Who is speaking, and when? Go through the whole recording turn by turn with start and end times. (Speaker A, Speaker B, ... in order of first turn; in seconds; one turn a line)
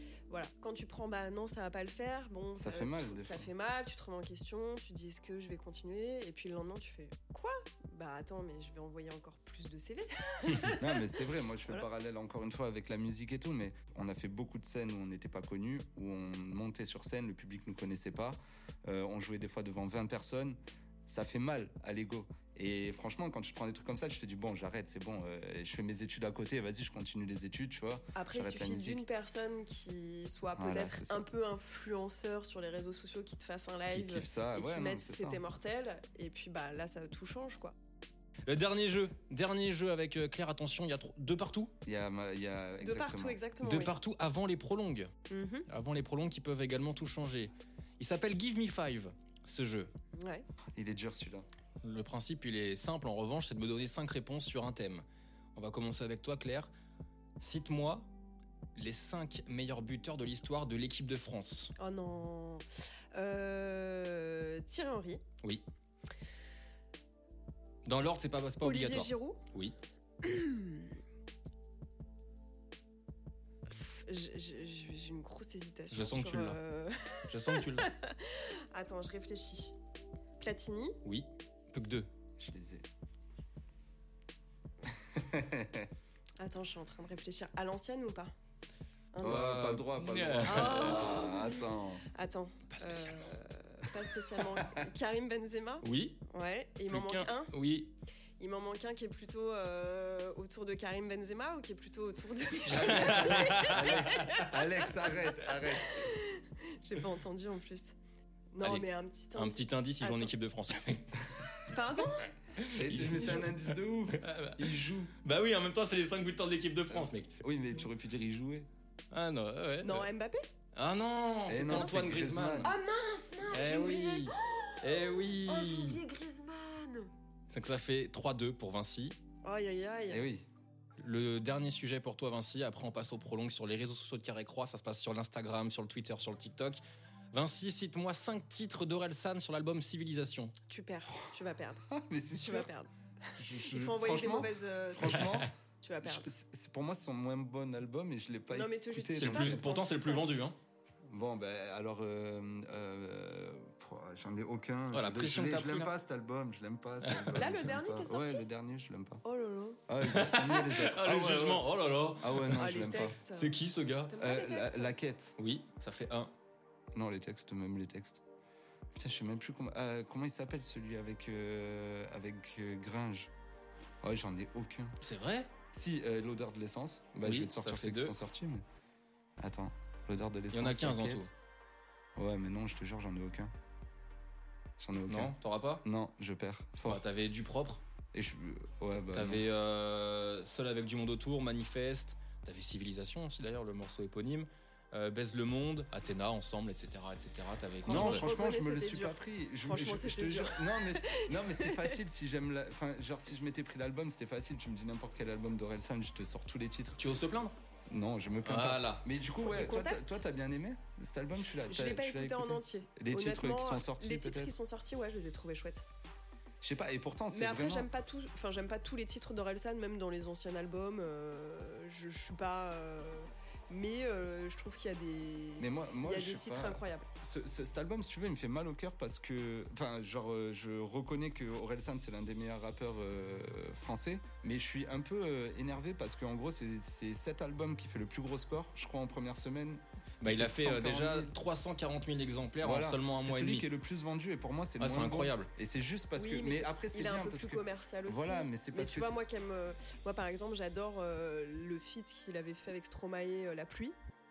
Speaker A: 0.3-11.1
Speaker B: 2.6-3.5
Speaker B: 10.7-29.0
Speaker A: 28.2-37.7
Speaker B: 30.6-31.2
Speaker B: 33.9-35.4
Speaker C: 38.5-41.7
Speaker B: 41.9-43.4
Speaker A: 42.8-44.0
Speaker C: 43.6-45.1
Speaker A: 45.3-45.7
Speaker C: 45.7-49.9
Speaker A: 50.2-50.5
Speaker B: 50.8-51.5
Speaker C: 51.8-56.7
Speaker C: 57.4-58.1
Speaker C: 58.8-61.7
Speaker A: 61.8-65.2
Speaker C: 67.9-69.8
Speaker A: 68.6-69.4
Speaker A: 70.2-71.0
Speaker A: 73.7-79.7
Speaker C: 75.9-76.6
Speaker C: 77.3-77.9
Speaker A: 80.4-81.0
Speaker C: 81.0-82.1
Speaker B: 82.4-82.8
Speaker B: 85.1-85.9
Speaker A: 86.4-88.3
Speaker A: 89.1-89.6
Speaker B: 89.2-92.1
Speaker C: 89.2-91.2
Speaker A: 90.5-97.6
Speaker C: 92.7-93.3
Speaker C: 95.8-96.2
Speaker C: 96.9-97.9
Speaker A: 98.4-104.8
Speaker C: 102.7-104.4
Speaker B: 102.7-106.1
Speaker A: 105.5-108.0
Speaker A: 108.5-110.3
Speaker C: 108.6-111.8
Speaker A: 111.7-112.3
Speaker C: 112.6-117.3
Speaker B: 112.8-115.1
Speaker B: 116.9-118.7
Speaker C: 119.1-120.1
Speaker A: 119.8-120.5
Speaker C: 120.7-122.7
Speaker B: 121.5-122.7
Speaker A: 122.6-127.1
Speaker C: 123.5-126.0
Speaker C: 127.5-129.2
Speaker A: 129.4-130.2
Speaker B: 130.1-130.5
Speaker C: 131.0-136.8
Speaker C: 137.3-140.6
Speaker A: 140.7-146.3
Speaker B: 141.9-142.7
Speaker B: 143.4-145.5
Speaker C: 145.2-145.4
Speaker B: 146.0-149.7
Speaker A: 148.5-150.4
Speaker C: 149.2-150.6
Speaker B: 151.1-159.2
Speaker C: 154.9-155.9
Speaker C: 157.0-157.3
Speaker A: 157.3-158.5
Speaker A: 159.2-159.8
Speaker B: 159.9-163.2
Speaker C: 160.1-164.2
Speaker A: 162.6-165.0
Speaker B: 164.2-165.4
Speaker C: 165.4-166.3
Speaker B: 166.9-168.2
Speaker B: 168.9-173.3
Speaker B: 174.0-175.0
Speaker C: 175.0-175.5
Speaker B: 175.7-178.6
Speaker C: 177.2-178.2
Speaker B: 179.4-181.3
Speaker C: 180.5-181.3
Speaker B: 182.2-183.5
Speaker B: 184.8-187.0
Speaker C: 185.1-185.8
Speaker C: 186.8-187.8
Speaker B: 188.1-189.5
Speaker C: 189.1-198.3
Speaker A: 197.8-202.0
Speaker B: 197.9-207.0
Speaker C: 207.0-207.5
Speaker B: 207.9-214.6
Speaker C: 208.4-209.1
Speaker A: 209.4-210.2
Speaker A: 211.7-215.8
Speaker B: 216.6-217.9
Speaker A: 217.3-227.1
Speaker B: 225.6-241.3
Speaker C: 240.2-243.7
Speaker B: 242.6-249.2
Speaker C: 244.8-245.5
Speaker A: 246.2-254.0